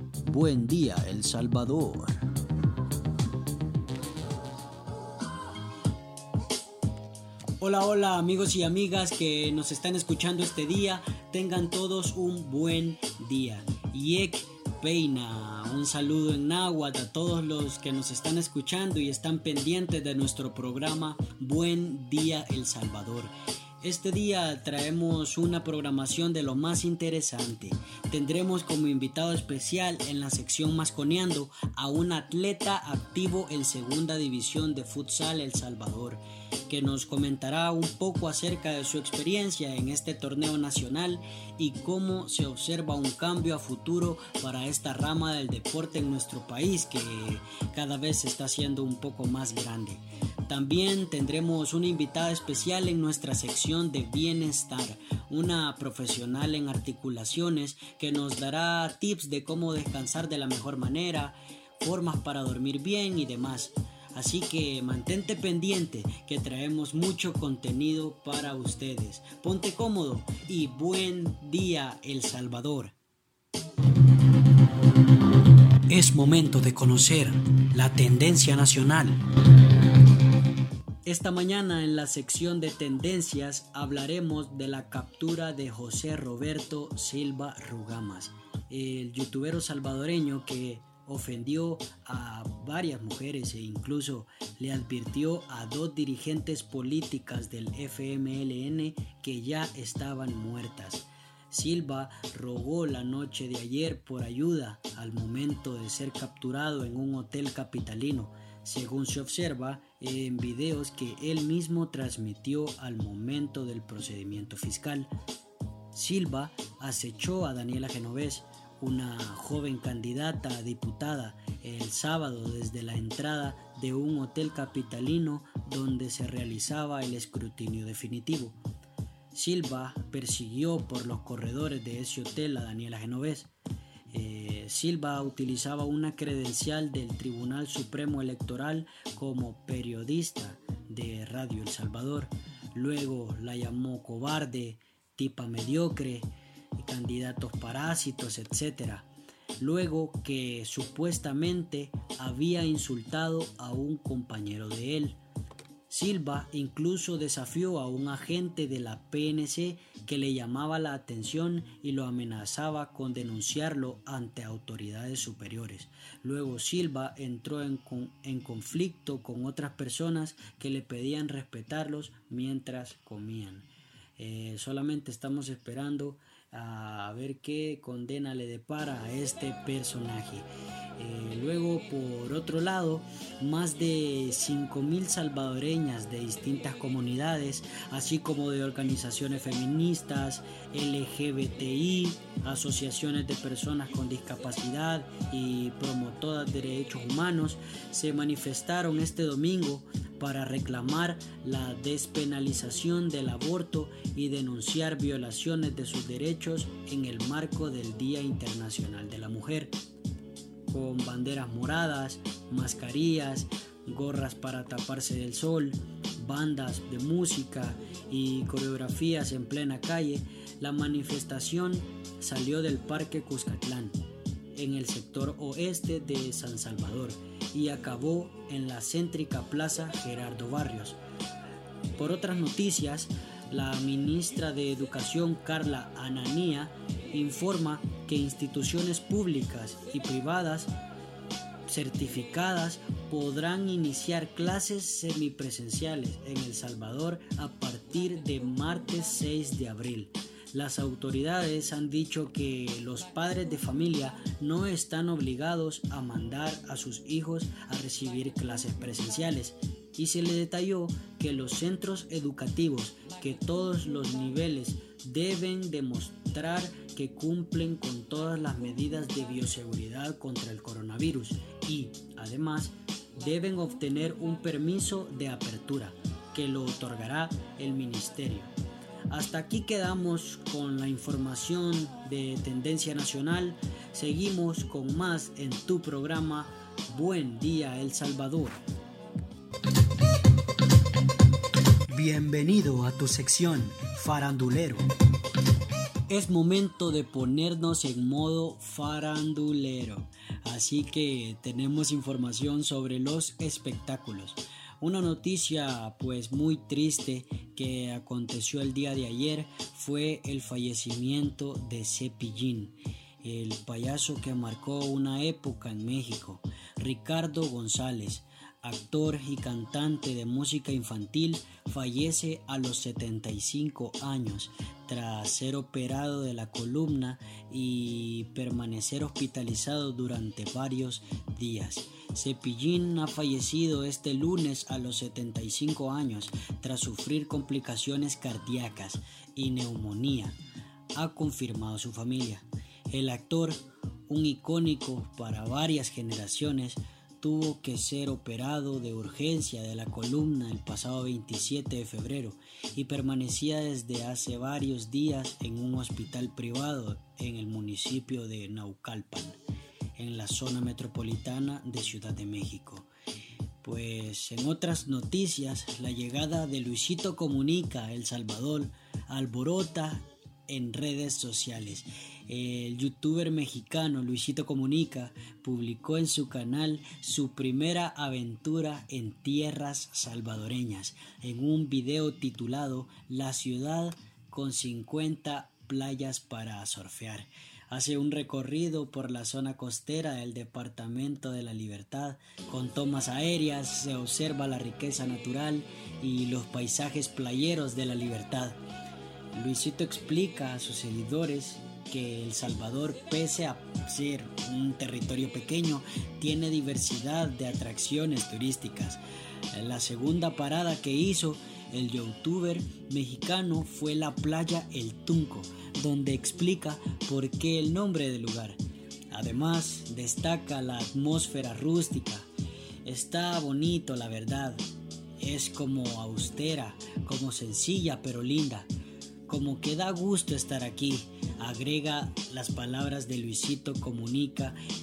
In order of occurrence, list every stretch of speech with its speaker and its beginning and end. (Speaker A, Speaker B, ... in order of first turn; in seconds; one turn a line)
Speaker A: 0.2-2.2
Speaker A: 7.6-73.0
Speaker A: 75.9-79.2
Speaker A: 81.1-115.1
Speaker A: 115.9-128.6
Speaker A: 129.3-133.5
Speaker A: 134.1-149.1
Speaker A: 149.6-155.2
Speaker A: 155.9-209.8
Speaker A: 210.7-224.0
Speaker A: 224.5-231.0
Speaker A: 232.0-240.7
Speaker A: 241.7-278.5
Speaker A: 279.1-288.6
Speaker A: 291.9-294.8
Speaker A: 296.1-340.4
Speaker A: 340.9-359.4
Speaker A: 360.0-362.9
Speaker A: 363.6-398.6
Speaker A: 399.3-409.0
Speaker A: 409.5-418.6
Speaker A: 419.1-422.3
Speaker A: 422.9-424.6
Speaker A: 425.2-428.7
Speaker A: 429.3-434.6